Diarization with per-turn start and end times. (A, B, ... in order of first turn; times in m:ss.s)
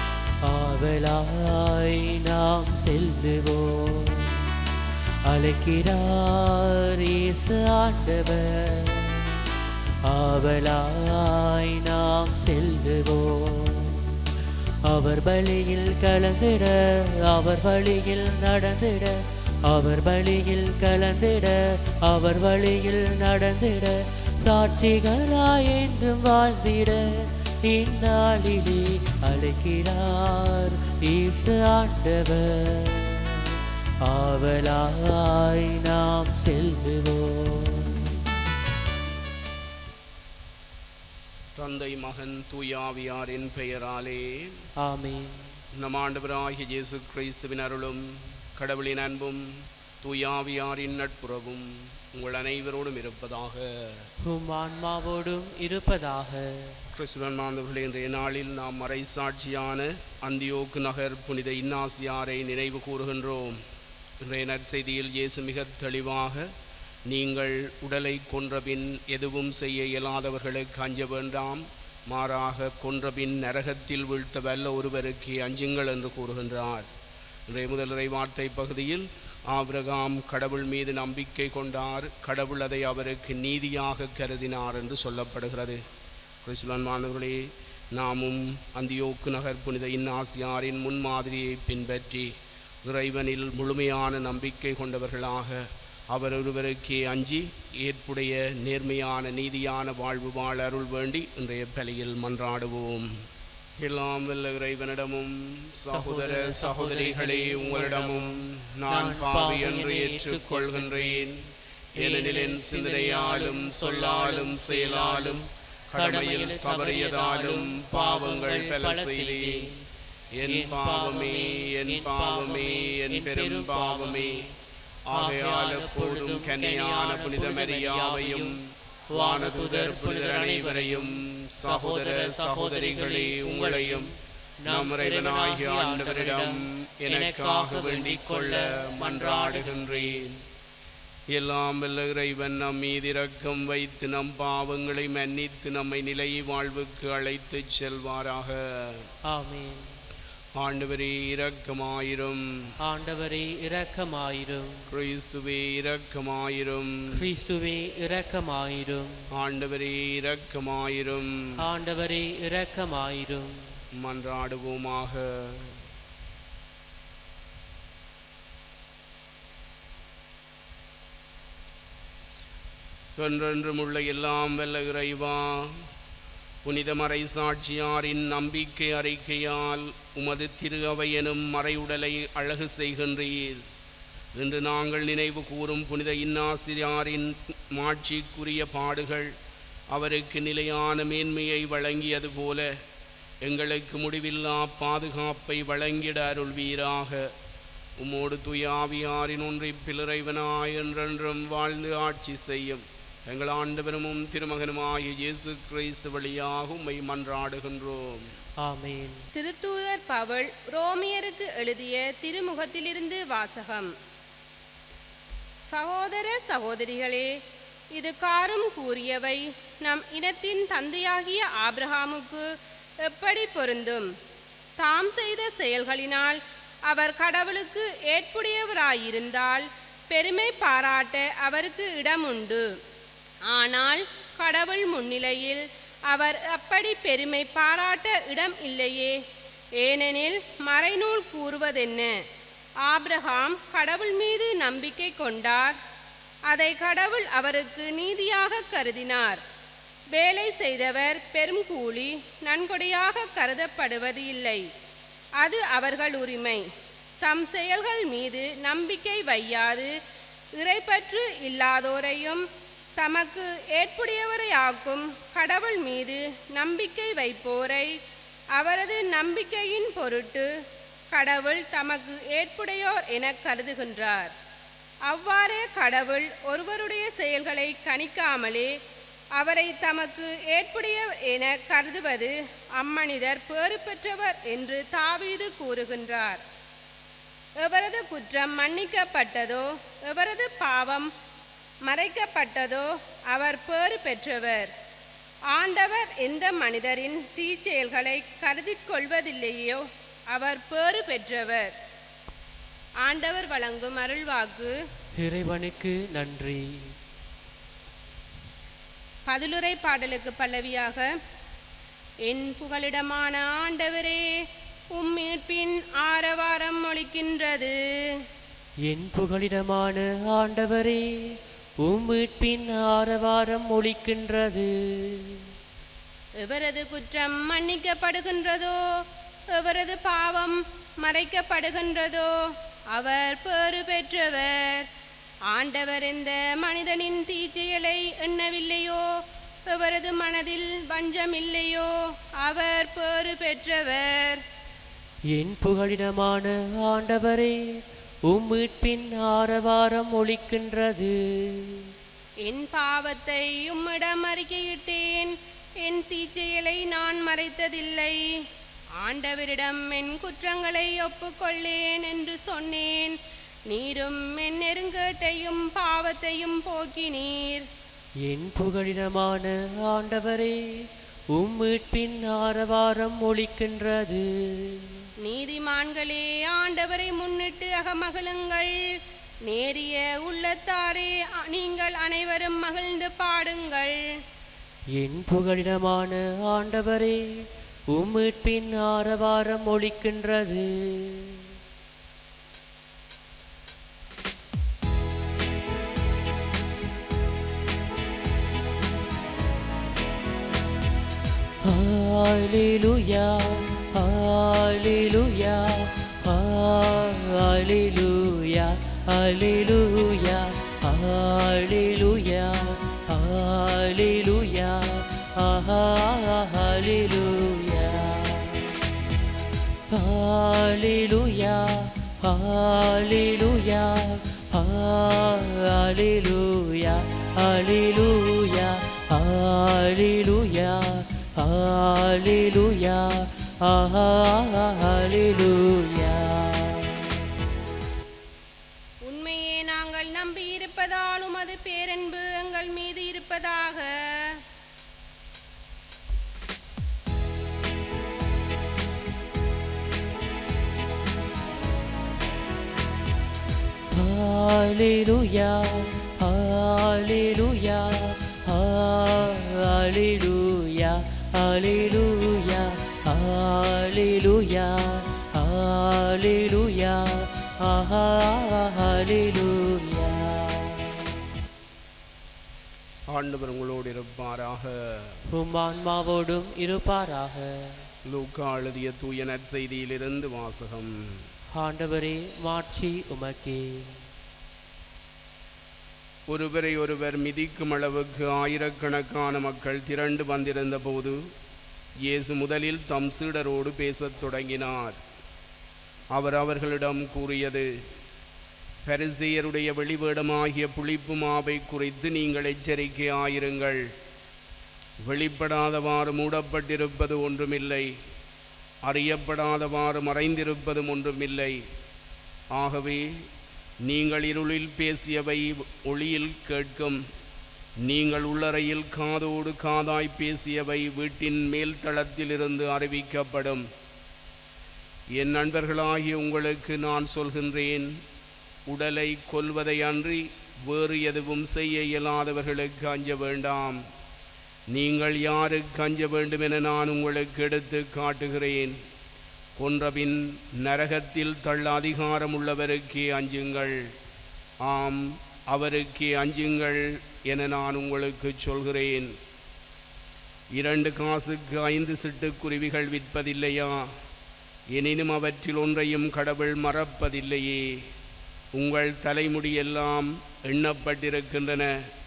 0:00.4-0:04.5 A
0:05.3-0:09.3 A
0:10.0-0:14.2 A
0:14.8-0:38.1 A
0:41.6-0:44.6 B
0:44.8-0:45.5 A
0:45.7-0:54.1 B
0:54.2-0:56.8 A
0:56.9-1:03.6 B
1:04.2-1:06.5 B
1:07.1-1:16.9 B
1:17.5-1:25.8 B
1:26.4-1:32.3 B
1:32.8-1:43.1 B
1:43.8-1:51.4 B
1:45.9-1:51.3 A
1:52.0-1:59.7 B
1:52.0-1:59.8 A
2:00.4-2:04.4 B
2:00.4-2:04.5 A
2:05.1-2:14.1 B
2:05.1-2:08.6 A
2:09.1-2:14.1 A
2:14.6-2:20.2 A
2:14.7-2:20.4 B
2:21.3-2:29.1 B
2:29.3-2:30.0 A
2:30.6-2:32.7 B
2:32.8-2:34.9 A
2:34.9-2:37.2 B
2:37.1-2:39.2 A
2:39.3-2:41.5 B
2:41.6-2:43.6 A
2:44.0-2:45.8 B
2:53.2-2:55.9 B
2:56.6-3:03.6 B
3:04.3-3:09.3 B
3:09.9-3:12.7 B
3:13.4-3:17.3 B
3:18.0-3:28.3 B
3:28.6-3:29.2 A
3:29.3-3:33.9 C
3:35.7-3:37.4 C
3:37.9-3:42.5 C
3:43.0-3:44.1 C
3:44.8-3:52.7 C
3:53.5-3:59.2 C
3:59.8-4:02.2 C
4:02.8-4:05.8 C
4:06.5-4:09.4 C
4:10.1-4:14.6 C
4:15.4-4:16.6 C
4:17.2-4:19.9 C
4:20.6-4:22.4 C
4:23.0-4:27.9 C
4:28.5-4:30.5 C
4:31.1-4:34.3 C
4:35.1-4:38.8 C
4:39.4-4:46.4 C
4:47.6-4:51.1 C
4:51.8-4:54.7 C
4:55.5-5:01.7 C
5:03.0-5:04.7 C
5:05.2-5:06.9 A
5:09.3-5:11.1 C
5:12.2-5:14.4 C
5:14.9-5:18.2 C
5:18.8-5:21.1 A
5:21.8-5:25.4 A
5:26.4-5:28.8 C
5:29.5-5:34.9 C
5:35.5-5:44.4 C
5:45.3-5:47.6 A
5:48.3-5:51.9 A
5:52.4-5:58.2 C
5:59.0-6:07.7 C
6:08.2-6:10.6 A
6:11.3-6:15.0 A
6:15.2-6:24.2 C
6:25.0-6:27.2 A
6:27.9-6:31.5 A
6:41.6-6:58.7 A
6:59.9-7:17.0 A
7:19.0-7:24.4 C
7:33.9-7:51.0 A
7:53.1-7:55.2 B
7:55.3-7:57.7 A
7:58.0-8:01.2 B
8:01.5-8:04.0 A
8:06.3-8:11.3 B
8:12.0-8:15.0 B
8:16.1-8:17.7 B
8:18.8-8:23.9 B
8:25.0-8:27.9 B
8:28.8-8:31.6 B
8:32.5-8:33.2 B
8:33.8-8:37.0 B
8:37.8-8:43.6 B
8:45.2-8:47.9 B
8:48.7-8:53.8 B
8:54.7-8:58.8 B
8:59.6-9:03.9 B
9:04.6-9:09.1 B
9:10.5-9:14.0 B
9:14.7-9:17.9 B
9:18.5-9:21.9 B